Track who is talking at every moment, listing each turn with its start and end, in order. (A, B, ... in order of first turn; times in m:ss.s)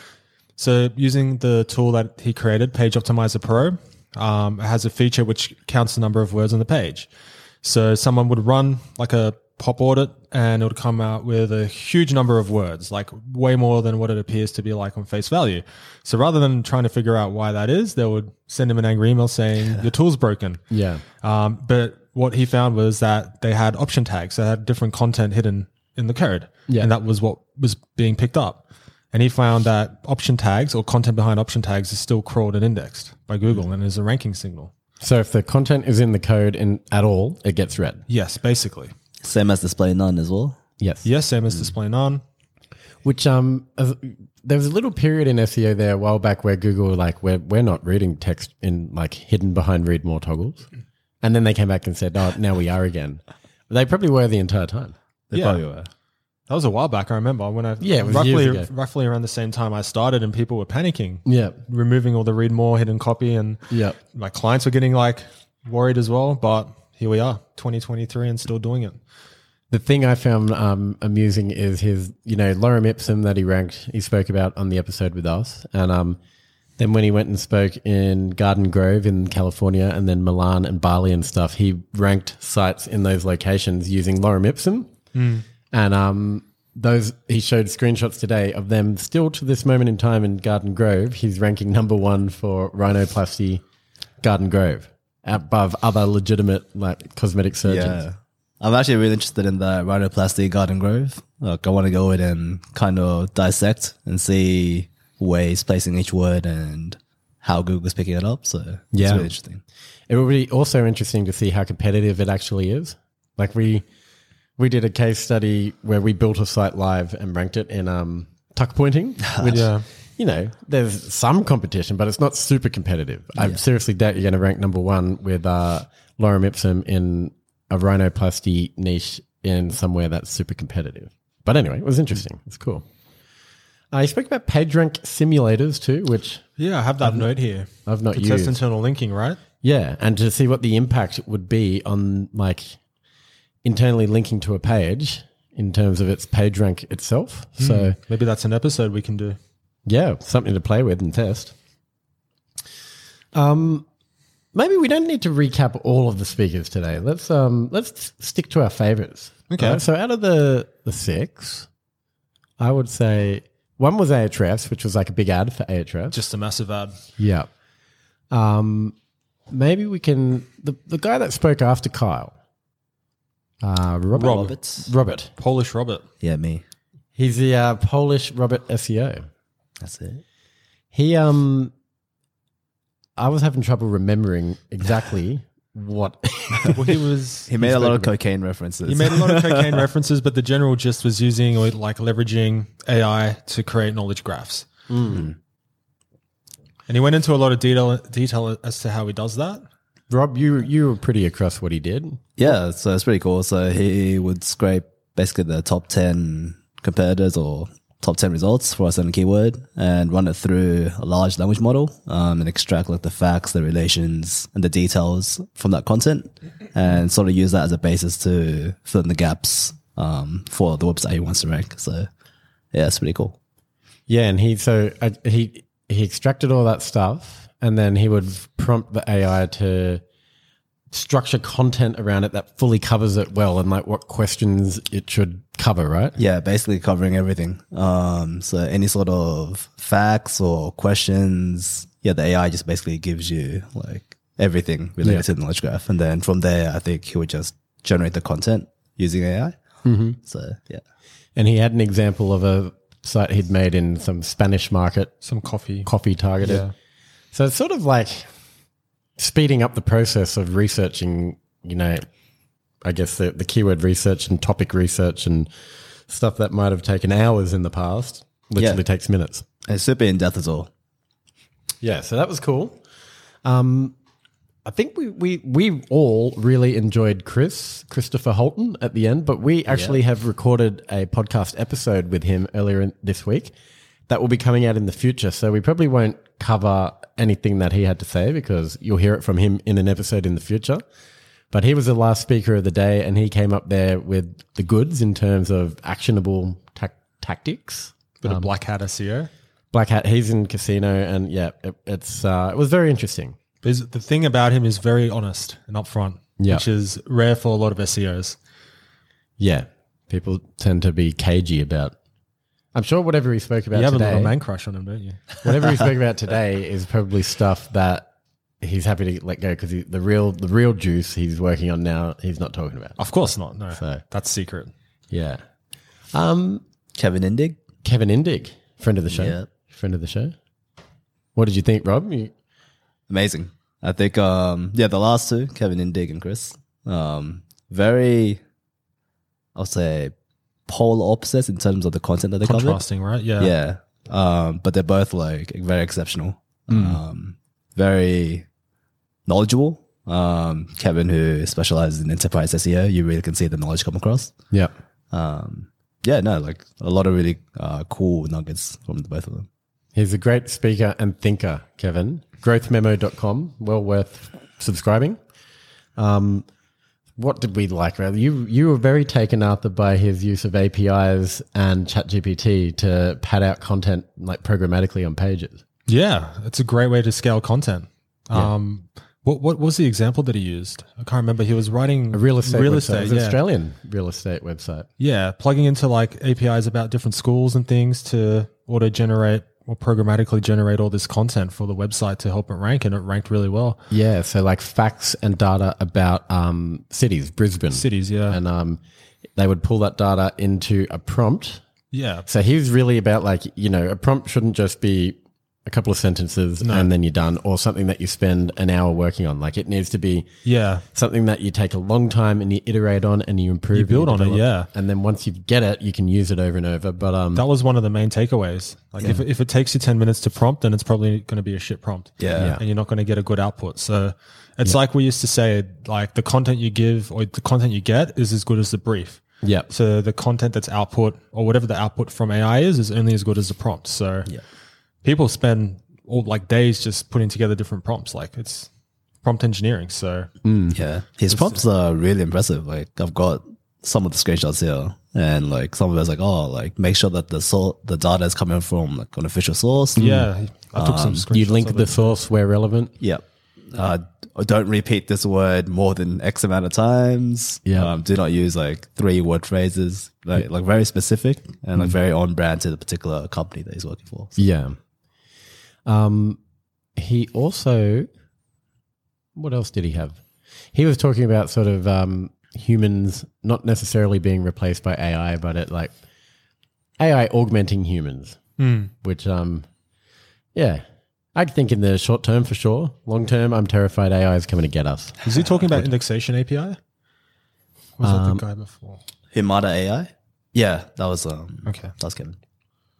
0:00.6-0:07.1 A
0:07.6-0:20.6 A
0:20.7-0:21.0 B
0:21.2-0:34.7 A
0:35.0-0:38.0 B
0:38.1-0:38.9 A
0:39.2-0:40.6 C
0:40.8-0:41.1 B
0:41.0-0:42.2 A
0:43.0-0:50.6 B
0:51.2-0:54.9 B
0:55.3-0:55.9 C
0:55.3-0:55.6 A
0:56.5-1:03.6 A
0:57.8-0:58.7 B
1:01.2-1:01.6 B
1:03.7-1:04.0 B
1:04.1-1:09.0 A
1:09.7-1:16.2 B
1:16.8-1:24.9 B
1:25.1-1:25.4 A
1:25.7-1:33.6 B
1:34.2-1:38.0 B
1:37.6-1:49.6 C
1:48.9-1:49.3 B
1:50.1-1:53.8 B
1:54.6-2:12.8 B
1:59.4-1:59.8 A
2:13.9-2:16.4 B
2:16.6-2:19.4 A
2:17.0-2:17.3 B
2:17.8-2:18.6 B
2:19.6-2:22.8 B
2:23.6-2:28.0 B
2:27.6-2:29.4 A
2:29.8-2:31.5 B
2:33.3-2:33.8 B
2:34.5-2:41.7 B
2:39.5-2:39.8 A
2:42.6-2:46.2 B
2:46.1-2:47.0 A
2:47.2-2:47.5 B
2:48.3-2:49.0 B
2:49.5-2:52.3 B
2:53.6-2:55.3 B
2:54.2-2:54.9 C
2:54.2-2:54.5 A
2:55.4-2:56.0 A
2:56.2-2:56.6 C
2:57.1-2:59.2 B
2:59.8-3:00.2 C
3:00.9-3:01.7 B
3:03.2-3:06.9 B
3:06.7-3:07.5 A
3:07.5-3:09.8 C
3:07.6-3:08.1 B
3:08.8-3:14.7 A
3:14.9-3:15.3 B
3:16.9-3:19.6 A
3:20.1-3:22.2 B
3:22.4-3:42.1 C
3:42.7-3:43.4 C
3:44.1-3:50.0 B
3:50.9-3:56.2 B
3:56.2-4:09.5 C
4:09.8-4:10.2 B
4:10.2-4:10.8 C
4:11.4-4:15.2 B
4:15.2-4:15.9 A
4:15.8-4:16.7 B
4:16.4-4:16.7 A
4:17.3-4:18.3 B
4:19.2-4:22.0 B
4:22.8-4:25.5 B
4:26.1-4:29.4 B
4:28.6-4:28.8 C
4:29.7-4:30.7 C
4:31.8-4:32.8 B
4:33.4-4:33.9 B
4:34.6-4:43.5 B
4:39.7-4:40.0 C
4:44.1-4:50.8 B
4:51.5-4:58.5 B
4:58.2-4:59.3 A
4:59.7-5:03.4 B
5:03.6-5:08.4 A
5:06.4-5:06.6 B
5:09.4-5:11.9 B
5:12.7-5:14.3 B
5:13.7-5:15.4 A
5:15.4-5:18.1 B
5:18.6-5:23.1 B
5:23.0-5:24.7 A
5:23.7-5:24.0 B
5:25.1-5:25.4 B
5:26.1-5:26.6 B
5:26.9-5:27.6 C
5:27.8-5:30.3 B
5:29.1-5:29.5 C
5:31.3-5:32.3 B
5:33.1-5:38.4 C
5:39.6-5:40.1 C
5:40.7-5:42.8 C
5:42.4-5:43.5 A
5:43.4-5:48.4 C
5:46.7-5:47.0 B
5:49.3-5:54.3 C
5:55.1-5:59.5 C
5:59.9-6:05.2 B
6:06.0-6:06.5 B
6:07.2-6:15.6 B
6:15.9-6:23.4 A
6:22.1-6:24.9 B
6:25.0-6:33.8 A
6:33.9-6:38.8 B
6:37.7-6:38.4 A
6:39.4-6:41.6 B
6:41.9-6:42.3 A
6:42.3-6:50.3 B
6:46.6-6:46.9 A
6:50.4-6:50.8 A
6:50.9-6:57.4 B
6:53.7-6:54.7 A
6:57.3-7:14.3 A
7:02.2-7:02.6 C
7:02.4-7:02.6 B
7:09.4-7:09.7 B
7:15.0-7:18.7 A
7:19.2-7:20.3 A
7:20.4-7:20.8 B
7:20.7-7:30.0 C
7:21.3-7:21.6 A
7:30.0-7:30.3 B
7:30.0-7:32.1 A
7:30.7-7:31.2 C
7:31.3-7:32.9 B
7:33.0-7:44.4 C
7:37.6-7:37.9 B
7:44.4-7:44.8 B
7:45.8-7:46.4 B
7:47.0-7:48.1 B
7:49.3-7:50.2 B
7:50.7-7:55.9 B
7:57.0-7:58.4 B
7:58.6-7:58.9 A
7:59.0-7:59.7 B
8:00.5-8:00.8 B
8:01.3-8:05.2 B
8:05.2-8:06.8 A
8:08.0-8:09.0 A
8:08.0-8:08.4 B
8:09.3-8:12.4 C
8:11.6-8:11.9 A